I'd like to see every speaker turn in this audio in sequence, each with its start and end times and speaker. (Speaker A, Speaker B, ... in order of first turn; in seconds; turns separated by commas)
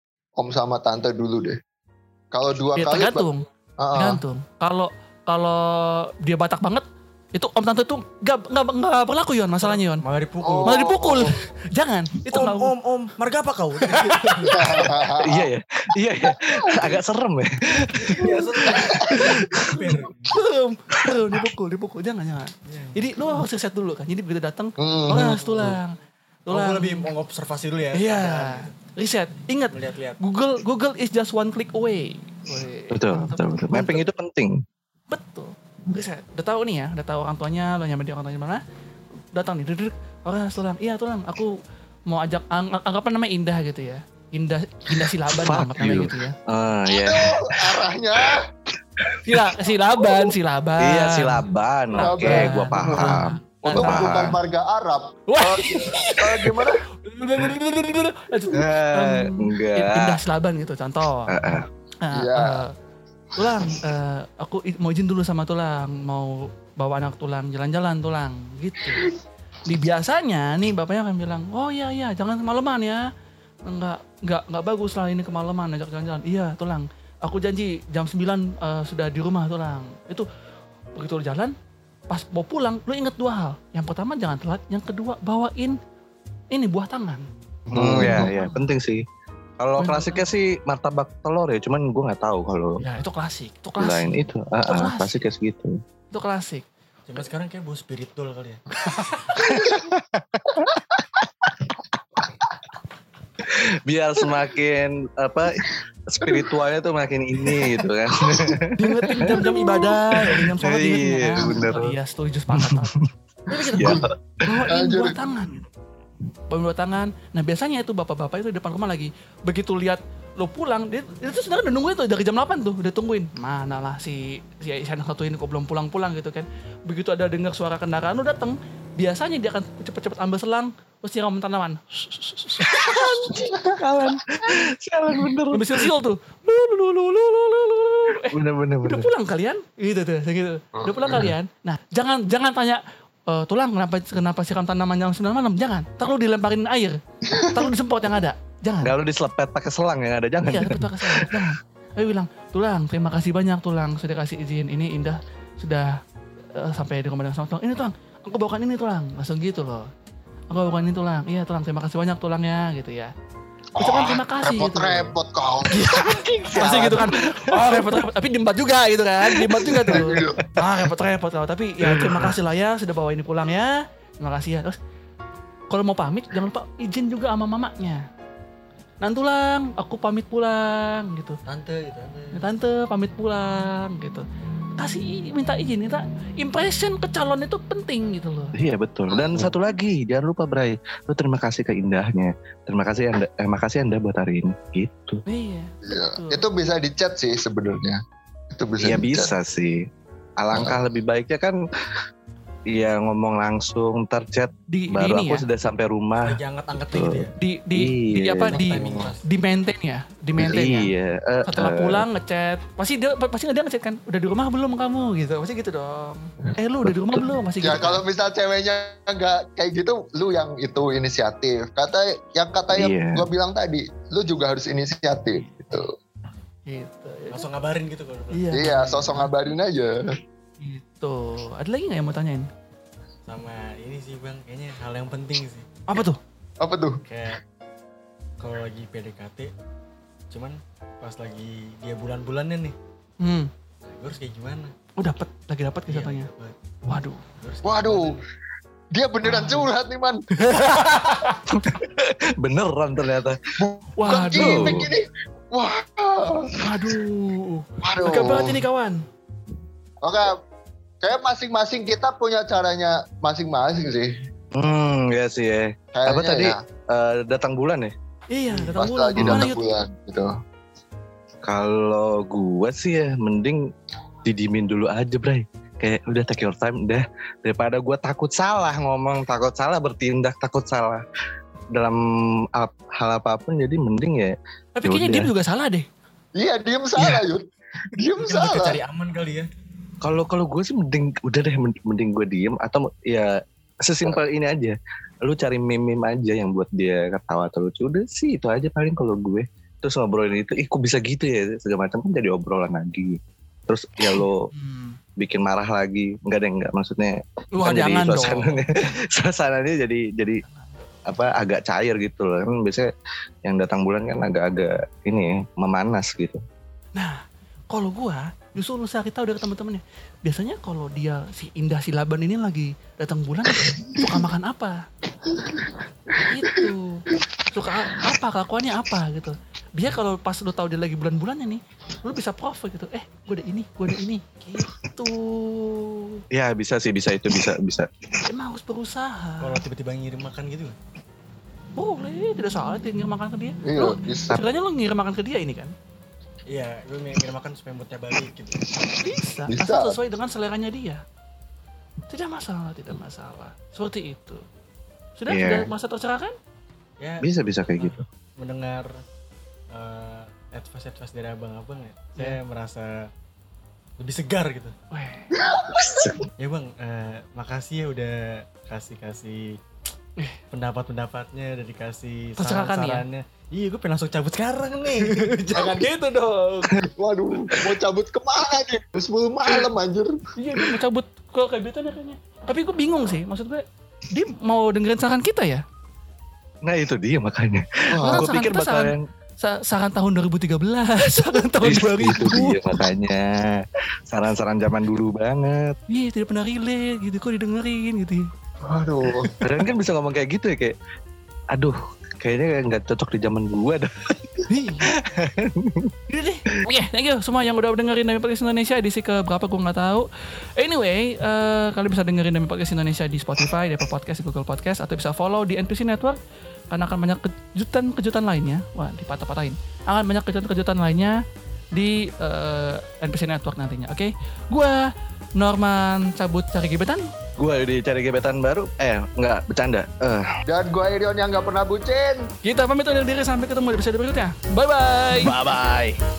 Speaker A: 0.4-1.6, Speaker A: 2.3-3.2, Speaker B: 2.8-3.4, Speaker A: 3.8-4.2, Speaker B: 4.0-10.0, Speaker C: 9.6-10.8, Speaker A: 10.4-11.3, Speaker B: 10.7-12.7, Speaker C: 12.3-14.9, Speaker B: 13.8-14.7, Speaker A: 14.5-15.5, Speaker D: 15.2-18.3, Speaker C: 17.9-20.4, Speaker A: 18.2-19.7, Speaker D: 19.2-19.8, Speaker B: 20.3-27.1, Speaker C: 22.7-23.4, Speaker A: 24.8-25.7, Speaker C: 26.5-28.7, Speaker B: 27.9-34.0, Speaker C: 29.7-30.2, Speaker D: 32.9-34.6, Speaker B: 35.1-38.6, Speaker B: 39.3-41.5, Speaker B: 42.1-46.3, Speaker D: 45.2-47.8, Speaker A: 46.9-48.5, Speaker B: 49.2-54.3, Speaker D: 50.8-54.3, Speaker A: 52.0-56.8, Speaker B: 55.3-62.7, Speaker D: 58.5-60.2, Speaker D: 61.3-61.6, Speaker A: 62.1-62.6, Speaker B: 63.3-69.1, Speaker B: 69.7-73.0, Speaker B: 73.7-80.3, Speaker B: 81.0-81.5, Speaker B: 82.1-85.8, Speaker B: 86.5-87.3, Speaker A: 87.7-88.3, Speaker D: 87.7-89.0, Speaker B: 88.0-88.5, Speaker D: 89.6-92.8, Speaker B: 89.8-90.2, Speaker B: 92.8-95.3, Speaker D: 93.8-95.8, Speaker B: 96.1-96.6, Speaker C: 97.1-99.4, Speaker D: 99.4-100.7, Speaker D: 103.4-111.9, Speaker A: 106.2-106.5, Speaker A: 107.5-108.6, Speaker B: 108.8-113.0, Speaker D: 112.5-113.1, Speaker B: 113.5-115.7, Speaker A: 113.5-114.1, Speaker D: 113.7-114.1, Speaker A: 114.6-115.2, Speaker B: 116.5-133.3, Speaker D: 132.6-135.9, Speaker A: 133.3-133.7, Speaker B: 135.5-148.9, Speaker D: 138.2-139.1, Speaker A: 140.8-141.3, Speaker A: 147.3-147.7, Speaker D: 148.8-151.5, Speaker B: 150.4-156.0, Speaker B: 156.5-159.9, Speaker B: 160.5-163.1, Speaker A: 163.8-167.1, Speaker B: 163.8-165.1, Speaker B: 165.7-174.8, Speaker D: 165.9-168.0, Speaker A: 169.5-170.6, Speaker D: 171.8-172.3, Speaker B: 175.7-178.0, Speaker B: 179.0-181.4, Speaker C: 181.5-182.4, Speaker B: 182.3-184.2, Speaker B: 184.8-188.5, Speaker D: 188.5-195.2, Speaker A: 189.1-189.5, Speaker B: 195.3-196.4, Speaker A: 195.8-198.0, Speaker A: 198.5-199.3, Speaker D: 198.8-199.9, Speaker D: 200.4-201.6, Speaker A: 200.5-200.8, Speaker D: 202.7-206.4, Speaker B: 204.7-205.4, Speaker C: 206.2-207.3, Speaker D: 206.9-208.7, Speaker B: 207.4-210.9, Speaker C: 208.5-209.2, Speaker A: 208.8-209.1, Speaker D: 210.4-212.0, Speaker B: 211.5-218.0, Speaker D: 216.9-217.2, Speaker A: 217.6-225.9, Speaker D: 222.7-223.2, Speaker B: 226.7-227.4, Speaker C: 227.3-228.8, Speaker B: 228.3-229.3, Speaker A: 228.5-230.0, Speaker B: 230.6-232.5, Speaker C: 233.3-235.7, Speaker B: 235.9-236.2, Speaker A: 236.6-237.0, Speaker C: 237.1-237.4, Speaker C: 238.4-239.5, Speaker C: 240.3-242.7, Speaker B: 243.2-243.5, Speaker C: 243.9-244.7, Speaker B: 245.0-246.3, Speaker C: 245.9-246.6, Speaker B: 246.8-247.2, Speaker C: 247.4-248.2, Speaker A: 247.6-248.2, Speaker A: 248.9-250.2, Speaker B: 249.2-249.7, Speaker B: 250.4-251.5, Speaker C: 250.7-251.3, Speaker D: 251.7-253.4, Speaker A: 253.6-256.6, Speaker B: 254.0-254.9, Speaker D: 254.3-254.9, Speaker B: 256.6-259.0, Speaker A: 257.8-258.6, Speaker A: 260.0-260.4, Speaker A: 261.0-264.1, Speaker D: 264.5-267.9, Speaker A: 265.9-266.6, Speaker B: 268.3-269.7, Speaker A: 268.5-270.3, Speaker D: 269.2-269.5, Speaker D: 271.4-273.7, Speaker D: 274.2-281.0, Speaker D: 281.7-285.3, Speaker B: 284.8-285.9, Speaker A: 286.4-288.8, Speaker C: 286.9-287.2, Speaker C: 288.2-289.5, Speaker D: 290.0-304.5, Speaker B: 304.2-305.0, Speaker D: 305.2-310.4, Speaker B: 307.5-308.6, Speaker B: 310.5-310.9, Speaker D: 311.1-312.9, Speaker D: 313.4-316.4, Speaker B: 317.7-324.8, Speaker A: 325.3-325.7, Speaker B: 326.1-336.2, Speaker D: 336.3-337.9, Speaker B: 338.2-339.6, Speaker C: 339.4-340.8, Speaker B: 341.8-345.7, Speaker A: 343.6-344.4, Speaker C: 346.5-348.6, Speaker B: 349.0-351.0, Speaker A: 349.5-350.0, Speaker B: 352.1-354.4, Speaker B: 355.2-356.3, Speaker D: 355.3-355.7, Speaker C: 357.0-358.9, Speaker D: 357.2-358.0, Speaker C: 359.7-363.1, Speaker C: 364.0-364.7, Speaker B: 364.9-365.3, Speaker A: 365.3-365.9, Speaker D: 365.8-366.2, Speaker C: 366.4-369.6, Speaker C: 370.5-375.9, Speaker B: 372.4-373.0, Speaker B: 375.5-376.7, Speaker A: 376.8-380.6, Speaker B: 380.4-385.6, Speaker D: 386.6-389.0, Speaker A: 387.9-388.2, Speaker B: 388.0-392.7, Speaker D: 391.6-395.8, Speaker B: 395.9-398.3, Speaker A: 398.6-399.3, Speaker D: 399.4-400.8, Speaker D: 401.5-405.9, Speaker B: 404.5-404.9, Speaker B: 406.1-410.1, Speaker B: 410.6-416.2, Speaker B: 416.7-421.2, Speaker B: 421.7-427.0, Speaker D: 427.4-430.2, Speaker A: 430.5-432.3, Speaker B: 432.4-435.3, Speaker D: 435.2-436.0